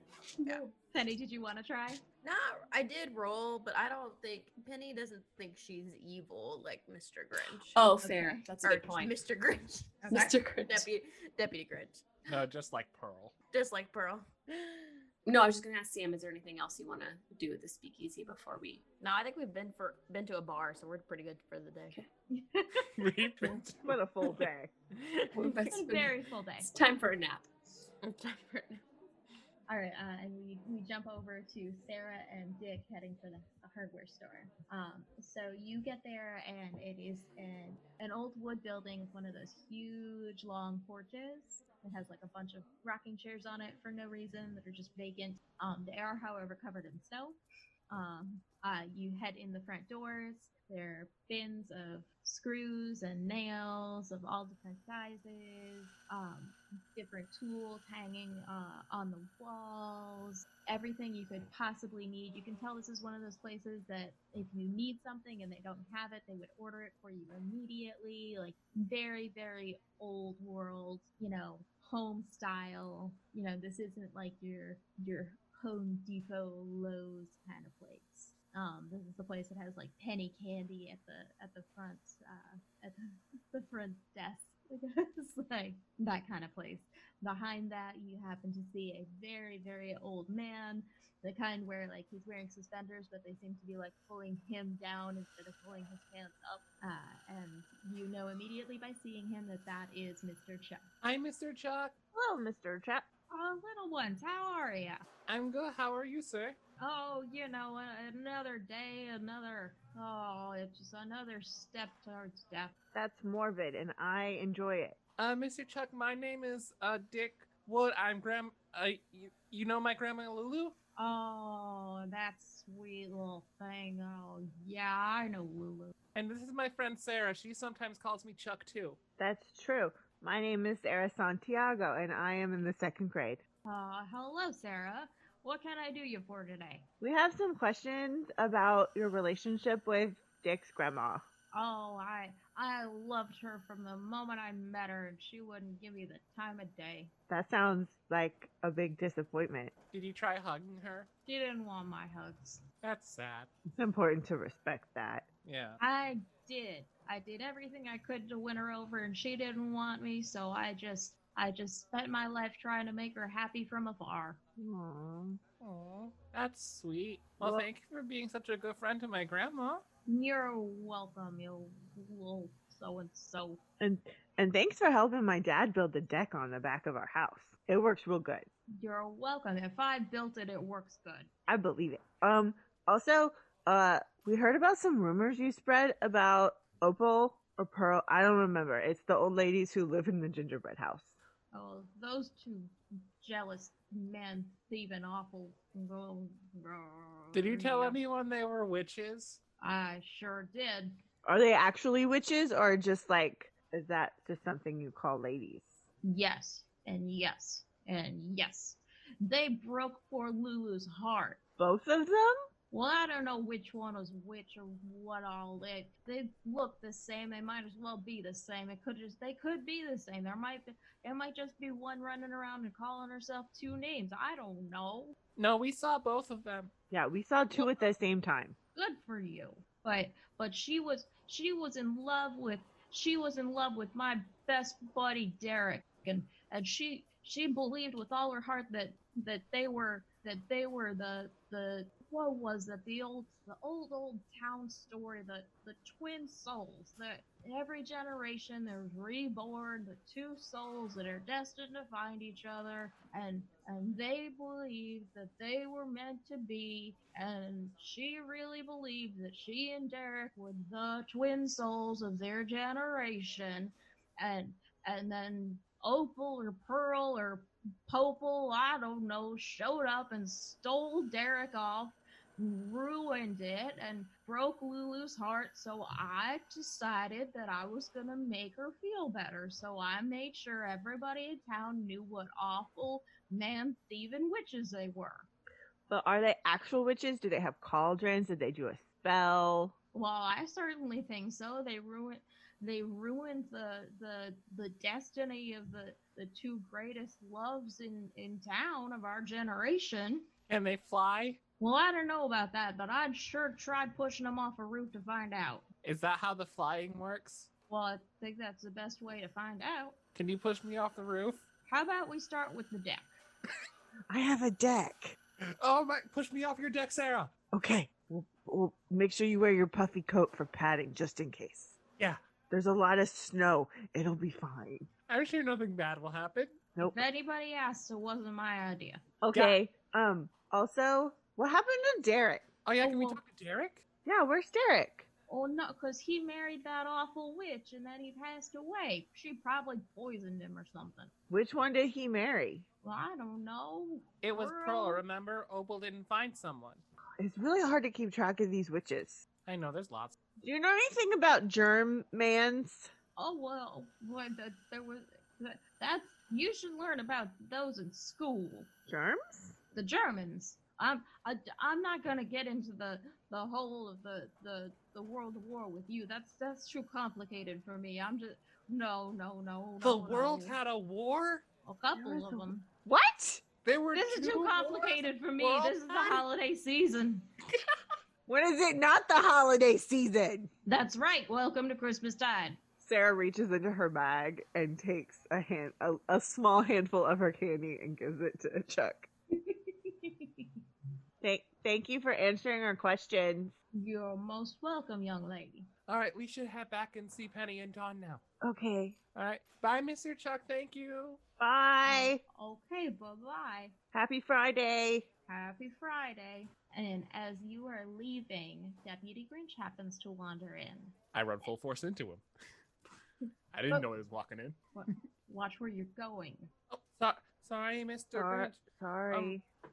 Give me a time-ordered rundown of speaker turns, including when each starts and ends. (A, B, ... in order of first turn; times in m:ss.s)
0:00.4-0:02.0 A
0:02.2-0:07.8 B
0:07.7-0:09.2 C
0:08.0-0:08.5 A
0:08.6-0:12.1 B
0:10.1-0:10.4 A
0:10.1-0:10.9 C
0:12.3-0:13.3 D
0:13.5-0:14.8 B
0:15.3-0:18.8 C
0:19.0-0:22.0 B
0:22.3-0:23.3 A
0:23.0-0:24.0 D
0:23.8-0:24.7 E
0:25.0-0:25.3 B
0:25.3-0:27.5 C
0:25.6-0:26.7 A
0:28.0-0:28.8 B
0:29.7-0:47.4 A
0:47.9-1:40.9 A
1:41.0-1:41.9 D
1:42.1-1:43.1 E
1:43.3-1:45.0 A
1:45.3-1:46.6 D
1:46.8-1:52.7 A
1:52.9-1:55.0 E
1:55.2-2:00.8 D
2:01.0-2:05.9 A
2:06.2-2:09.0 D
2:09.2-2:13.4 E
2:13.6-2:16.8 A
2:17.0-2:21.2 E
2:21.5-2:27.1 A
2:27.3-2:29.7 E
2:29.9-2:31.1 D
2:31.3-2:32.6 A
2:32.8-2:33.5 D
2:33.8-2:35.3 E
2:35.4-2:35.8 D
2:35.8-2:44.4 A
2:44.6-2:45.4 E
2:45.6-2:49.8 D
2:47.4-2:47.7 E
2:50.1-2:53.6 A
2:53.8-2:58.5 E
2:58.8-3:01.3 A
3:01.5-3:11.2 E
3:11.5-3:18.0 A
3:17.3-3:19.4 D
3:19.6-3:21.0 A
3:21.2-3:25.8 E
3:26.0-3:31.4 A
3:31.6-3:32.4 E
3:32.7-3:45.2 A
3:45.4-3:46.7 D
3:46.9-3:48.6 E
3:47.5-3:47.9 A
3:48.8-4:45.3 A
4:45.9-4:49.7 E
4:49.9-5:00.3 A
5:00.5-5:01.4 D
5:01.6-5:05.7 A
5:05.8-5:07.5 D
5:07.7-5:10.0 A
5:10.2-5:11.4 D
5:11.7-5:13.1 A
5:14.1-5:15.2 E
5:15.6-5:17.3 D
5:17.5-5:21.8 E
5:22.5-5:24.9 E
5:25.1-5:26.6 D
5:26.8-5:29.0 A
5:29.2-5:32.5 E
5:32.6-5:33.8 D
5:32.8-5:33.2 A
5:34.0-5:35.1 E
5:35.3-5:41.1 A
5:41.3-5:42.6 E
5:42.8-5:45.0 A
5:44.2-5:46.8 D
5:47.2-5:49.2 E
5:49.5-5:50.2 D
5:50.4-5:52.9 E
5:53.2-5:58.7 A
5:58.9-5:59.6 E
5:59.7-6:10.6 A
6:09.8-6:11.4 D
6:11.6-6:12.7 A
6:11.9-6:13.4 E
6:13.6-6:16.2 D
6:13.9-6:17.3 A
6:18.3-6:20.5 E
6:20.7-6:22.6 A
6:22.8-6:29.1 E
6:29.3-6:30.5 A
6:31.2-6:33.5 E
6:33.7-6:35.7 A
6:35.9-6:38.2 D
6:38.4-6:39.0 E
6:39.2-6:41.2 D
6:41.4-6:42.2 E
6:41.8-6:43.8 A
6:43.9-6:45.1 E
6:45.3-6:51.0 A
6:51.1-6:52.2 D
6:53.5-6:54.6 D
6:54.7-6:56.5 A
6:56.7-6:59.4 D
6:58.1-6:59.4 E